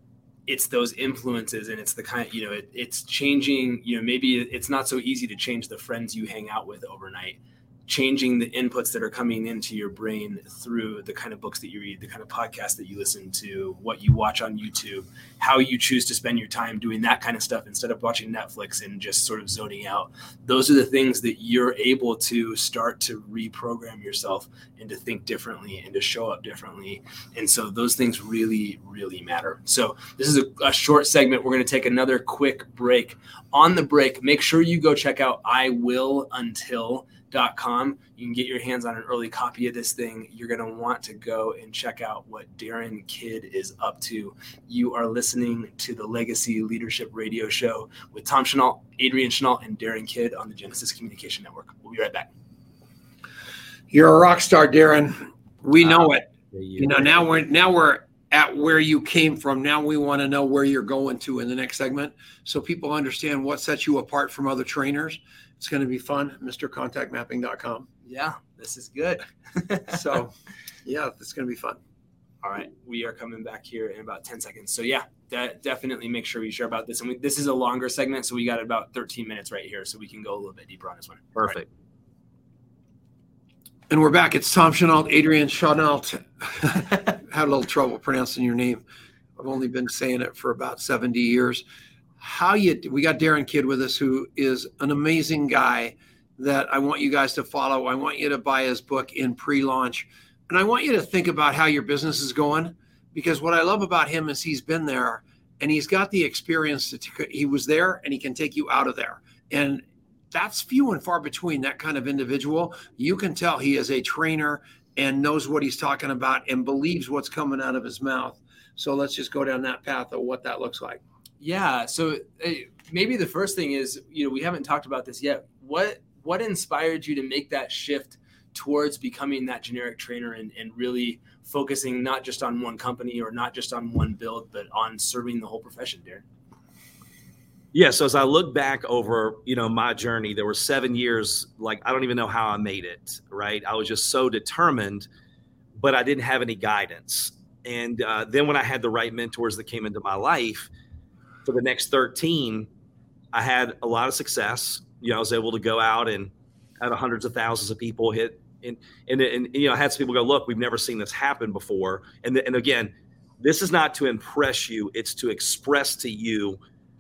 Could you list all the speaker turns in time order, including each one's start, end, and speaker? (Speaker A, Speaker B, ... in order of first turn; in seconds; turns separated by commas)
Speaker A: 0.5-52.3, Speaker B: 53.9-67.9, Speaker C: 55.8-57.0, Speaker A: 68.0-69.9, Speaker B: 69.9-70.3, Speaker B: 70.8-71.8, Speaker A: 72.4-81.6, Speaker C: 81.3-81.7, Speaker B: 83.9-88.8, Speaker B: 89.4-91.6, Speaker B: 92.2-121.0, Speaker A: 121.4-136.2, Speaker C: 137.7-145.1, Speaker C: 145.8-150.7, Speaker C: 151.4-152.7, Speaker C: 153.3-156.3, Speaker C: 156.8-166.6